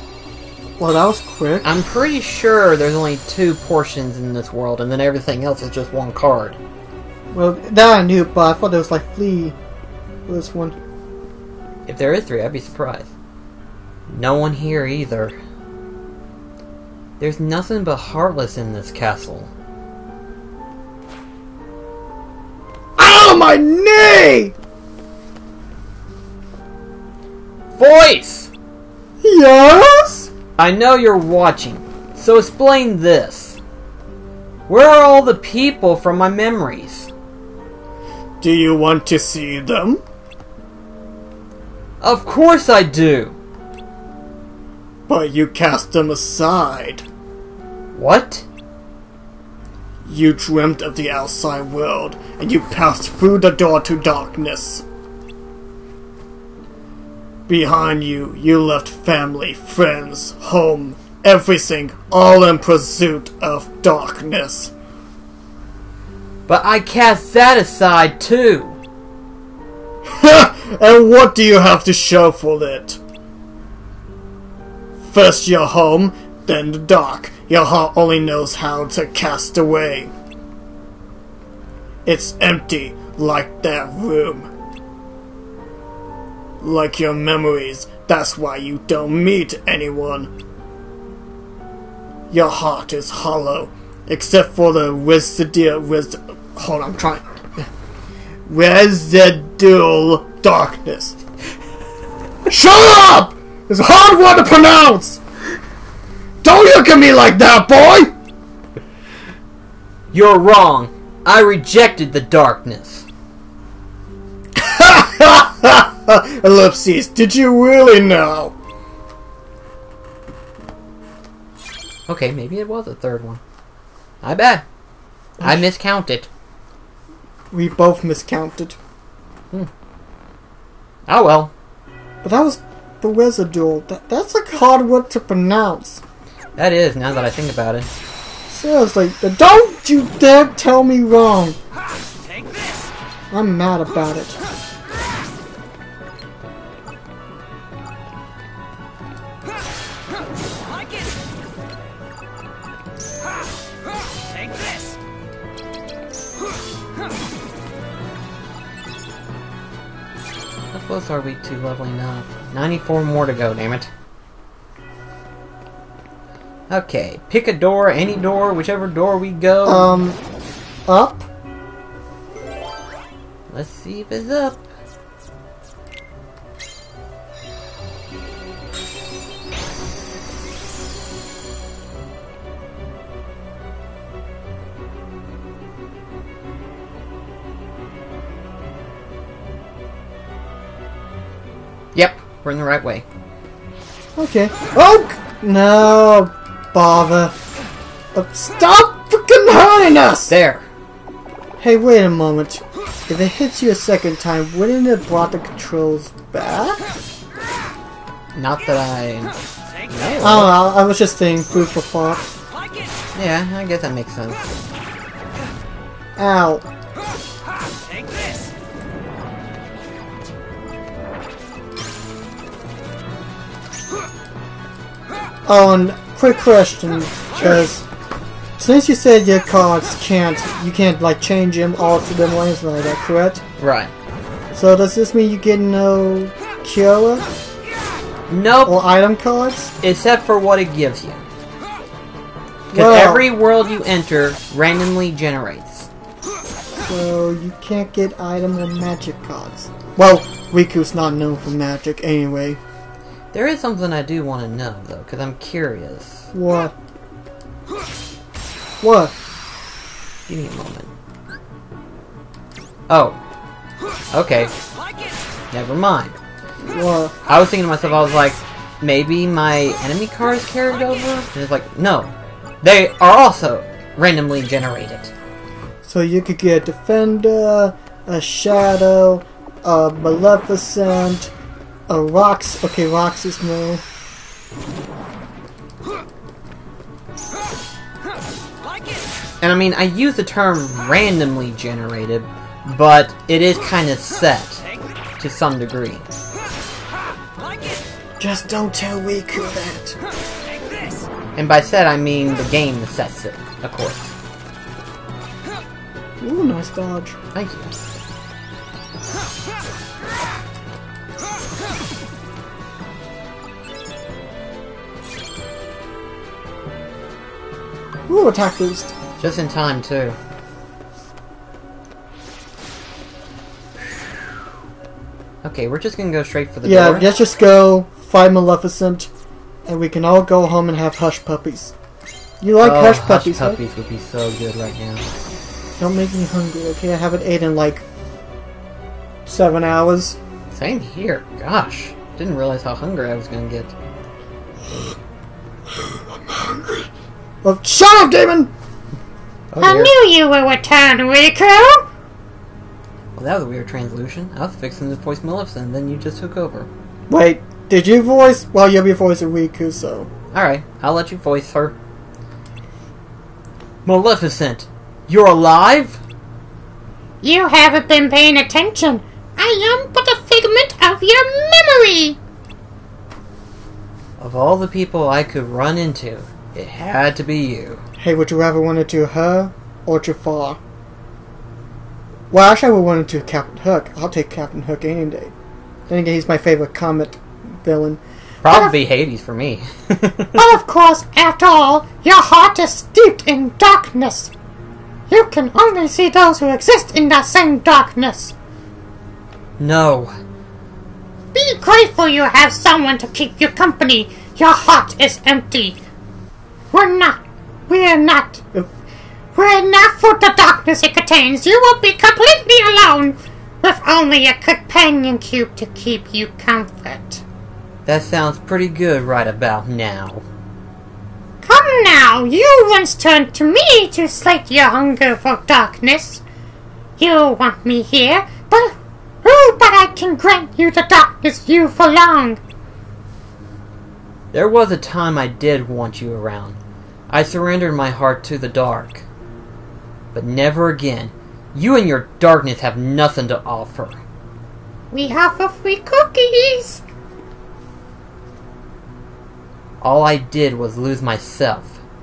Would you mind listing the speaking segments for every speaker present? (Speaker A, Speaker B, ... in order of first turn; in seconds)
Speaker A: 0.8-1.7, 7.3-9.6, 10.3-10.8, 23.0-24.6, 29.2-30.3, 38.4-40.0, 45.1-47.0, 50.1-54.8, 57.5-64.7, 70.0-73.0, 75.0-80.1, 82.0-84.5, 86.6-90.3, 92.3-97.7, 98.5-101.2, 102.5-105.2, 106.4-108.1, 114.5-118.5, 125.4-125.7, 127.5-128.8, 132.2-136.0, 138.5-141.6, 143.3-144.4, 169.7-170.2, 170.9-171.3, 194.2-197.4, 198.1-200.3, 201.6-206.8, 210.2-212.3, 216.2-216.7, 225.5-227.9, 228.6-233.4, 234.5-237.3, 238.7-239.7, 242.7-243.3, 246.8-252.6, 256.3-256.7, 258.8-259.1, 266.6-267.1, 275.8-281.3, 281.9-283.8, 298.2-300.0, 306.2-307.2, 318.1-318.9, 326.6-329.1, 329.7-331.7, 332.4-333.6, 335.8-337.8, 339.3-340.2, 345.8-346.9, 347.4-348.5, 357.1-360.1, 378.0-380.6, 382.3-385.3, 385.9-388.0
Speaker B: 1.6-6.6, 11.9-13.1, 14.1-15.3, 17.2-19.5, 27.8-28.5, 30.6-33.6, 34.7-37.1, 42.0-43.4, 48.0-48.5, 66.5-68.8, 110.1-113.1, 122.1-123.4, 124.2-124.6, 125.4-126.3, 131.1-131.5, 136.6-137.9, 160.7-163.9, 166.7-169.9, 173.5-174.6, 191.9-193.1, 200.3-200.7, 208.3-209.3, 209.9-210.5, 213.2-214.5, 233.6-233.9, 238.3-238.8, 239.8-241.2, 242.7-245.9, 253.3-256.3, 260.3-260.9, 262.9-263.2, 264.1-264.5, 265.5-266.1, 267.3-275.1, 289.4-294.6, 295.2-296.1, 301.4-304.1, 307.4-307.7, 319.2-320.2, 325.4-327.1, 332.6-335.1, 340.5-343.7, 349.5-349.9, 353.2-356.7, 360.3-361.8, 363.9-366.0, 374.2-377.8, 388.4-390.4, 399.6-400.1, 417.9-420.2, 434.3-436.6, 437.1-439.1, 440.1-444.0, 449.8-451.8
Speaker C: 349.6-351.9, 367.2-372.2, 390.4-394.3, 395.1-398.4, 401.3-405.8, 406.7-408.4, 409.4-417.2, 421.4-426.2, 427.0-432.4, 444.9-446.8